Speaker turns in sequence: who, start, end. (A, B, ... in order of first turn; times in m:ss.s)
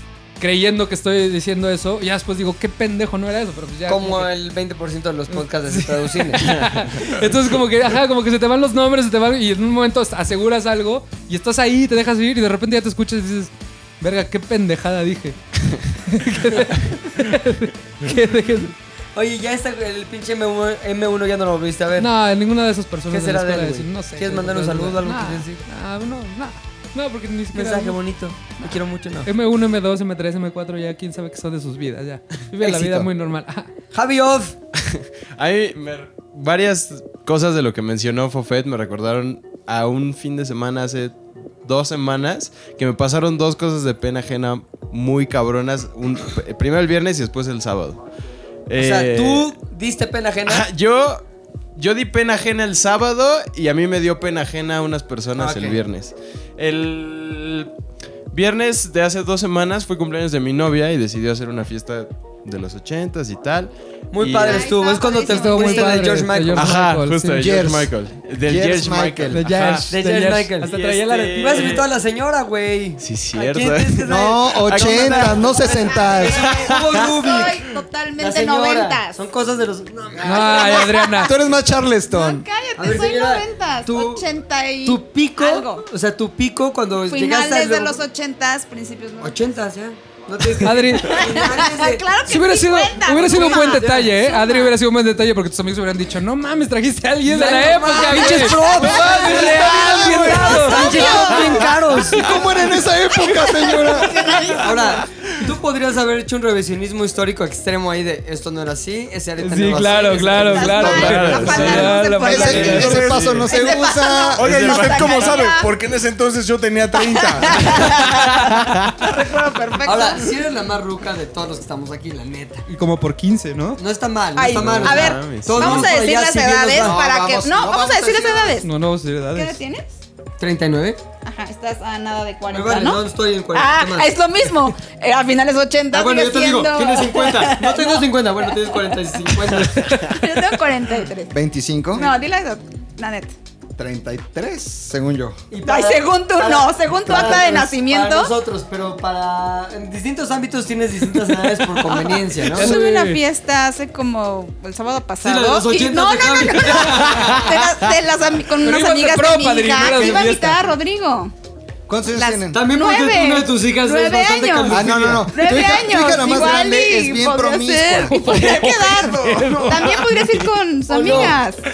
0:00.4-0:04.3 A
0:03.9-0:06.6 B
0:05.3-0:15.4 A
0:16.1-0:18.8 A
0:19.2-0:22.1 B
0:22.0-0:28.0 A
0:23.1-0:25.5 B
0:27.5-0:29.3 B
0:29.2-0:33.7 A
0:32.6-0:33.1 B
0:33.9-0:34.6 B
0:34.8-0:48.0 C
0:48.7-0:49.6 C
0:48.8-0:50.7 B
0:50.4-0:51.2 C
0:51.8-0:57.7 C
0:55.4-0:55.8 B
0:58.3-1:04.8 C
1:04.1-1:06.8 B
1:04.4-1:06.2 D
1:05.2-1:07.4 A
1:06.6-1:09.9 C
1:07.4-1:09.4 E
1:09.3-1:11.8 A
1:09.9-1:10.7 B
1:10.7-1:11.9 C
1:11.4-1:17.7 B
1:13.0-1:15.7 C
1:14.1-1:16.5 E
1:15.7-1:19.2 D
1:16.5-1:17.0 C
1:18.2-1:21.1 B
1:20.2-1:21.3 A
1:20.4-1:21.3 D
1:21.2-1:22.4 E
1:22.1-1:25.8 D
1:22.8-1:24.2 B
1:24.8-1:28.0 B
1:27.1-1:29.4 D
1:29.2-1:32.0 B
1:30.6-1:31.2 A
1:31.0-1:34.8 D
1:32.3-1:41.2 A
1:33.2-1:34.1 B
1:37.2-1:42.4 B
1:38.0-1:44.3 E
1:38.7-1:41.8 D
1:43.2-1:45.0 D
1:44.6-1:51.9 B
1:49.4-1:53.0 A
1:50.3-1:55.7 D
1:50.6-1:55.1 E
1:51.0-1:51.9 C
1:52.4-1:53.5 F
1:54.4-2:00.2 F
1:54.5-1:55.2 C
1:57.0-1:59.1 D
1:59.7-2:00.3 D
1:59.8-2:02.6 B
2:02.7-2:03.8 A
2:03.8-2:07.0 B
2:04.4-2:08.7 D
2:04.5-2:05.9 C
2:06.8-2:08.6 E
2:08.6-2:09.6 A
2:09.3-2:09.9 D
2:10.4-2:11.0 B
2:11.2-2:13.0 D
2:12.5-2:14.1 B
2:13.5-2:18.9 D
2:15.9-2:20.2 B
2:20.0-2:21.3 D
2:21.3-2:22.1 E
2:22.0-2:23.3 D
2:23.8-2:25.4 E
2:25.5-2:32.7 B
2:25.6-2:28.3 D
2:27.1-2:27.6 E
2:32.5-2:41.3 D
2:32.5-2:33.2 A
2:35.2-2:37.5 B
2:38.6-2:40.6 A
2:41.9-2:42.6 E
2:42.2-2:51.6 D
2:42.5-2:45.2 B
2:44.7-2:49.7 E
2:48.1-2:49.8 A
2:50.9-2:51.4 B